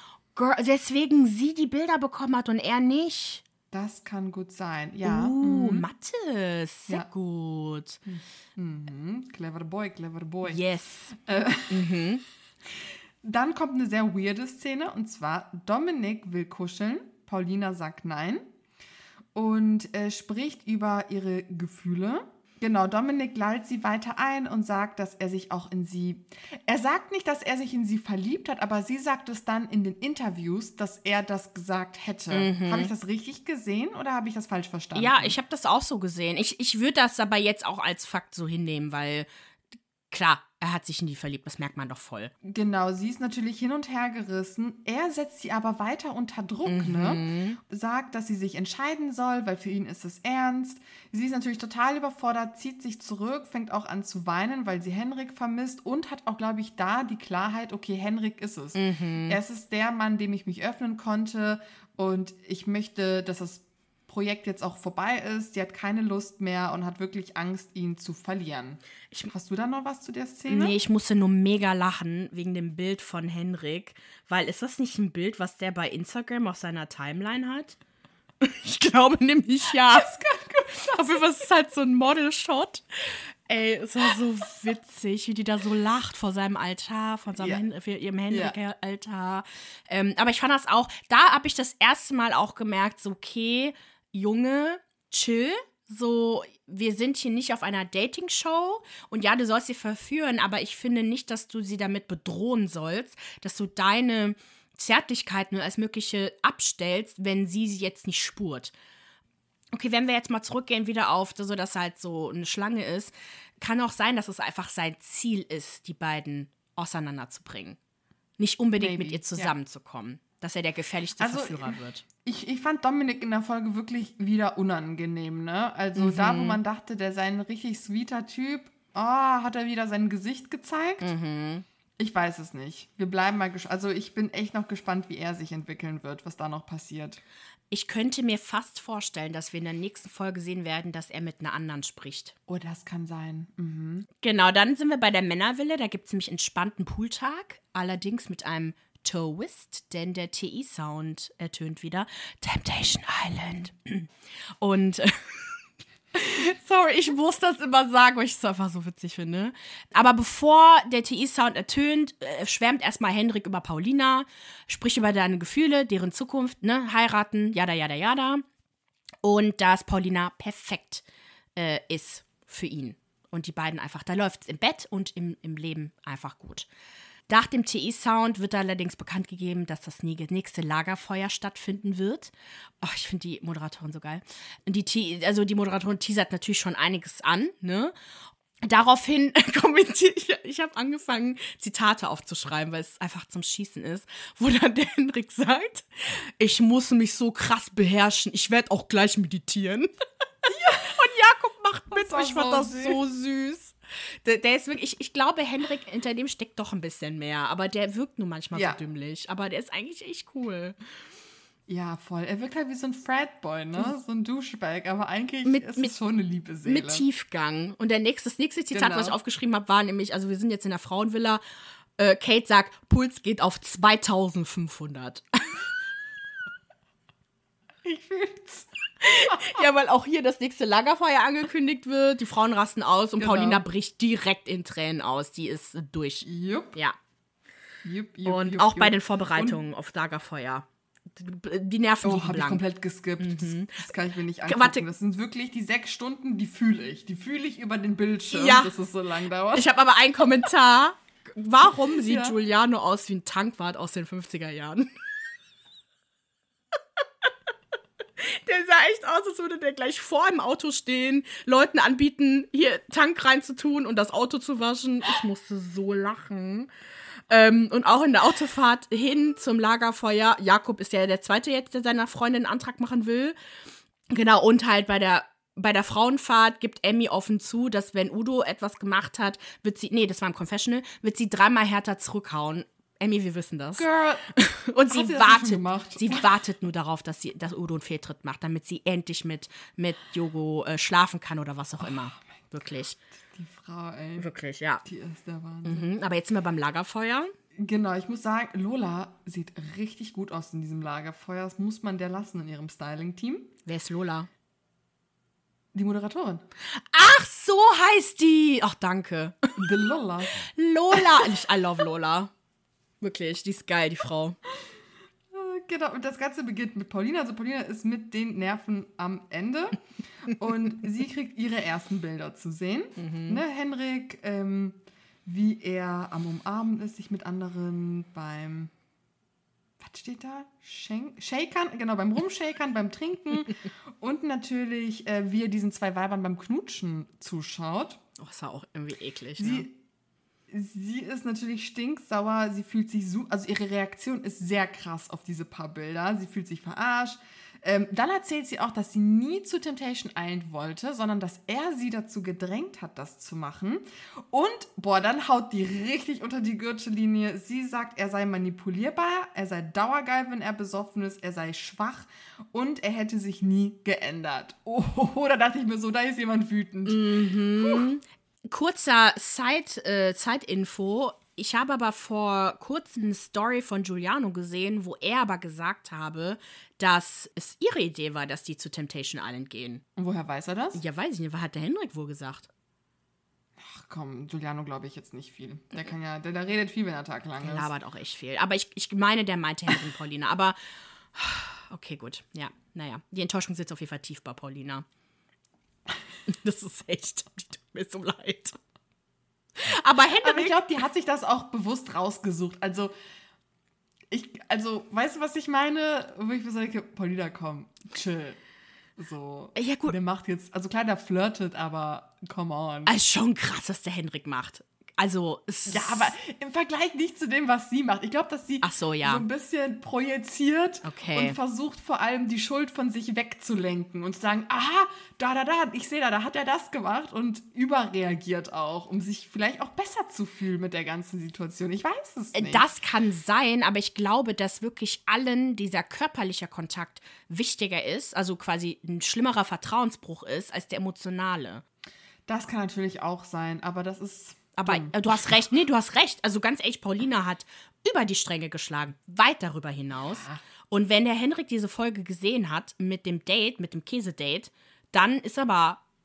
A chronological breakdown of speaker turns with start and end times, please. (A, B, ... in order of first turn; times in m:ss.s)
0:00.4-0:03.4 A
0:03.7-0:05.8 B
0:05.0-0:08.0 A
0:08.1-0:11.9 B
0:10.5-0:11.1 A
0:11.7-0:12.2 A
0:13.2-0:18.5 B
0:19.4-0:35.4 B
0:32.3-0:32.9 A
0:35.0-0:39.3 A
0:40.1-0:42.3 A
0:42.4-1:10.8 B
0:46.7-0:47.6 A
0:58.8-0:59.4 A
1:10.5-1:17.8 A
1:18.4-1:48.7 A
1:19.9-1:21.0 B
1:28.3-1:28.6 B
1:49.7-1:57.8 A
1:58.4-2:02.0 A
1:58.8-1:59.5 B
2:01.2-2:11.1 B
2:06.0-2:06.6 A
2:11.0-2:11.6 A
2:12.0-2:17.2 B
2:17.7-2:22.4 A
2:22.5-2:24.1 B
2:24.2-2:34.1 A
2:34.6-2:35.6 A
2:36.2-2:48.4 A
2:49.2-2:51.0 A
2:51.6-2:56.7 A
2:57.3-3:07.9 A
3:08.6-3:19.9 A
3:20.4-3:21.0 B
3:20.8-3:30.8 A
3:21.9-3:23.0 B
3:28.5-3:28.8 B
3:31.7-3:37.0 B
3:35.4-3:35.9 A
3:36.7-3:41.4 A
3:38.7-3:39.2 B
3:42.0-3:45.7 A
3:47.8-3:48.7 B
3:49.0-3:57.0 A
3:53.2-3:53.6 B
3:56.2-3:56.8 B
3:57.8-3:59.6 B
3:58.2-4:02.6 A
4:02.0-4:09.7 B
4:03.2-4:04.8 A
4:08.3-4:08.7 A
4:09.5-4:14.9 A
4:11.6-4:12.4 B
4:18.2-4:26.7 A
4:27.3-4:33.4 A
4:34.1-4:53.0 A
4:43.8-4:44.3 B
4:44.9-4:46.3 B
4:51.8-4:52.2 B
4:53.3-4:54.3 B
4:54.2-4:54.8 A
4:54.8-4:55.9 B
4:55.6-4:57.3 A
4:57.6-5:03.5 B
5:03.7-5:04.3 A
5:05.7-5:06.4 B
5:06.6-5:09.5 A
5:09.6-5:11.3 B
5:10.4-5:12.3 A
5:13.0-5:14.4 A
5:15.3-5:28.7 B
5:23.0-5:23.4 A
5:29.8-5:38.0 B
5:38.2-5:39.7 A
5:39.4-5:39.8 B
5:40.5-6:07.9 B
6:06.9-6:19.8 A
6:20.0-6:20.8 B
6:20.7-6:22.5 A
6:23.6-6:27.7 B
6:27.4-6:30.6 A
6:31.2-6:34.8 A
6:36.3-6:38.6 A
6:39.6-6:40.6 A
6:40.2-6:42.9 B
6:44.1-6:48.4 B
6:49.0-6:52.9 B
6:49.6-6:50.0 A
6:52.9-6:56.2 A
6:55.7-7:12.7 B
6:58.6-6:59.2 A
7:00.8-7:01.4 A
7:12.4-7:21.6 A
7:22.3-7:25.3 B
7:24.6-7:35.8 A
7:30.1-7:30.4 B